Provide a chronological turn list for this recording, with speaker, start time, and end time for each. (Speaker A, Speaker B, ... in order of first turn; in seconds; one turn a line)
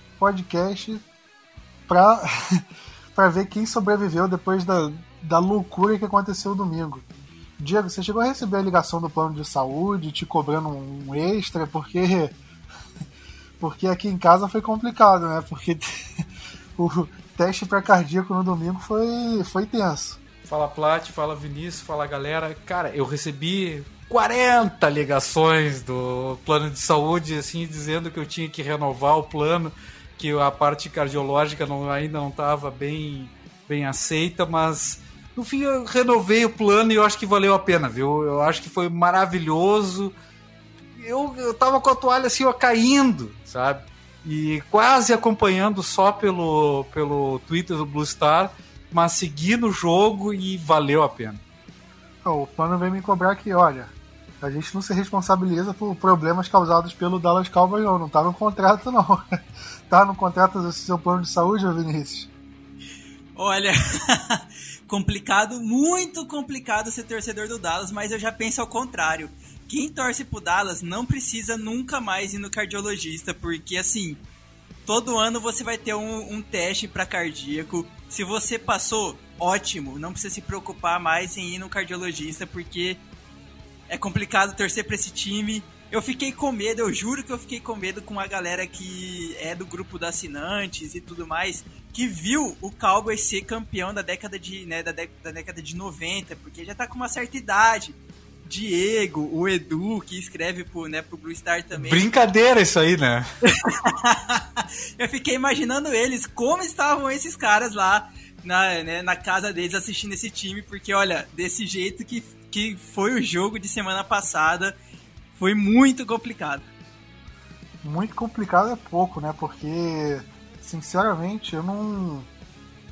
Speaker A: 0.2-1.1
Speaker A: 1.9-7.1
Speaker A: 7.6-12.4
Speaker A: 13.6-20.2
Speaker B: 20.5-40.1
Speaker B: 41.0-51.4
Speaker A: 52.2-62.3
Speaker C: 63.4-74.2
Speaker C: 74.9-83.0
Speaker C: 83.9-102.0
Speaker B: 101.8-103.3
Speaker C: 103.5-114.8
Speaker C: 115.3-116.7
Speaker A: 117.8-122.3